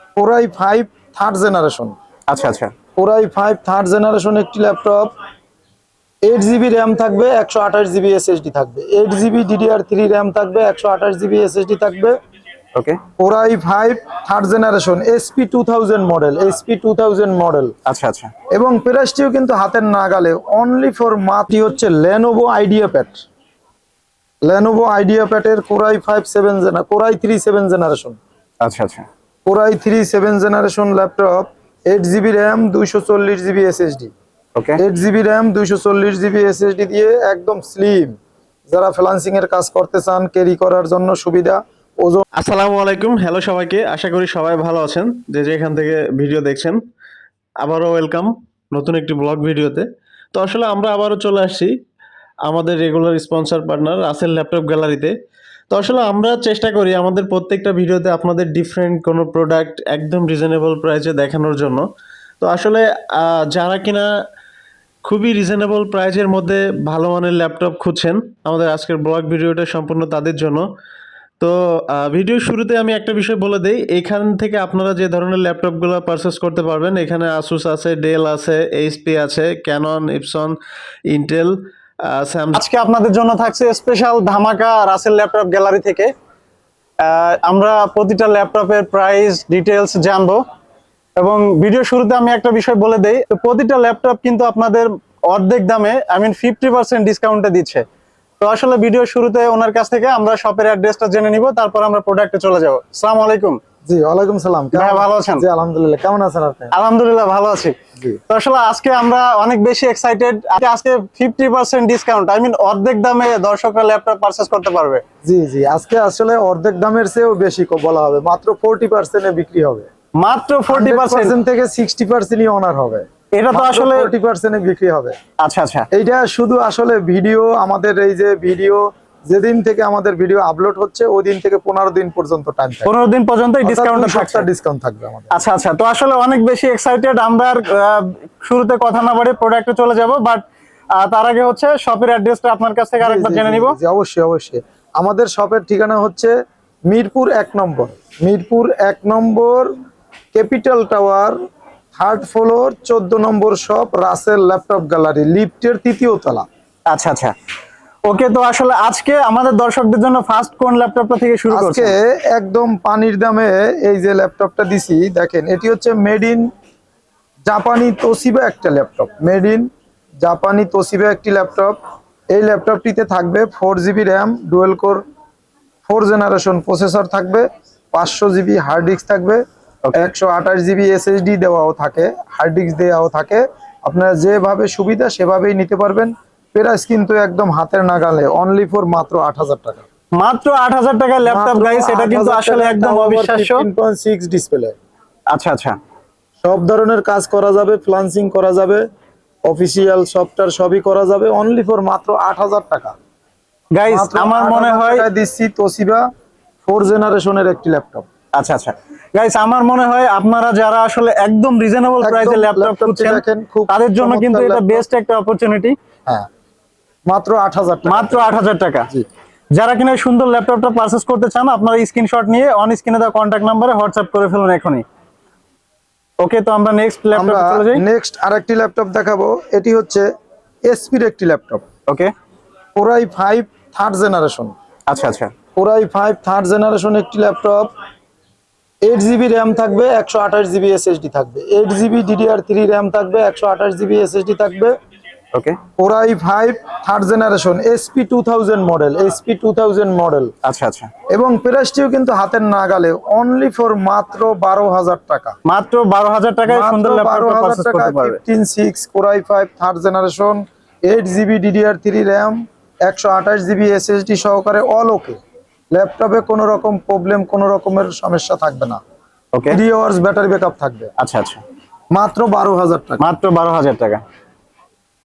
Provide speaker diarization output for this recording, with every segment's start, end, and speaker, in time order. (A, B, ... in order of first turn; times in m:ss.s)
0:00.2-0:01.9 A
0:02.3-0:02.7 B
0:03.0-0:05.1 A
0:06.2-0:12.1 A
0:13.2-0:17.7 A
0:17.8-0:18.3 B
0:18.5-0:23.2 A
0:24.4-0:28.2 A
0:28.6-0:29.0 B
0:29.4-0:34.1 A
0:34.6-0:34.8 B
0:34.8-0:38.2 A
0:38.7-0:42.2 A
0:42.3-0:46.8 C
0:47.6-0:51.7 C
0:52.4-0:55.1 C
0:55.7-1:01.8 C
1:02.4-1:04.1 C
1:05.0-1:10.7 C
1:11.4-1:20.6 C
1:21.1-1:22.7 C
1:22.5-1:26.1 B
1:27.0-1:30.4 B
1:31.2-1:37.8 B
1:38.4-1:43.6 B
1:43.8-1:46.7 A
1:44.7-1:45.4 B
1:46.7-1:47.7 B
1:48.3-1:55.0 B
1:55.2-1:59.9 A
2:00.2-2:01.3 B
2:00.7-2:05.2 A
2:03.4-2:04.1 B
2:05.4-2:05.9 B
2:05.9-2:12.9 A
2:12.8-2:14.5 B
2:13.6-2:15.3 A
2:15.3-2:20.4 B
2:21.0-2:23.8 B
2:23.0-2:26.3 A
2:26.9-2:29.7 A
2:30.3-2:31.4 A
2:31.9-2:36.4 A
2:36.9-2:37.3 B
2:38.0-2:41.9 B
2:41.5-2:46.5 A
2:47.5-2:49.7 A
2:50.2-2:51.8 A
2:52.3-2:55.0 A
2:55.8-2:59.4 A
2:59.9-3:09.8 A
3:10.2-3:13.7 B
3:11.2-3:14.8 A
3:15.3-3:15.8 B
3:16.4-3:18.8 A
3:19.4-3:22.9 A
3:23.8-3:25.0 B
3:23.8-3:26.1 A
3:26.6-3:28.1 A
3:28.3-3:35.7 B
3:32.0-3:34.8 A
3:37.1-3:38.4 A
3:37.8-3:38.9 B
3:39.5-3:44.8 B
3:46.2-3:47.8 B
3:47.1-3:50.1 A
3:50.6-3:51.6 A
3:52.7-3:54.5 A
3:54.9-3:55.3 B
3:55.5-3:57.7 A
3:58.8-4:04.7 A
4:05.3-4:05.6 B
4:05.8-4:10.3 A
4:10.4-4:10.9 B
4:11.1-4:15.3 A
4:15.4-4:18.2 B
4:16.5-4:25.2 A
4:25.7-4:28.8 A
4:29.3-4:29.6 B
4:29.5-4:30.9 A
4:31.0-4:31.4 B
4:31.9-4:33.0 A
4:33.0-4:34.0 B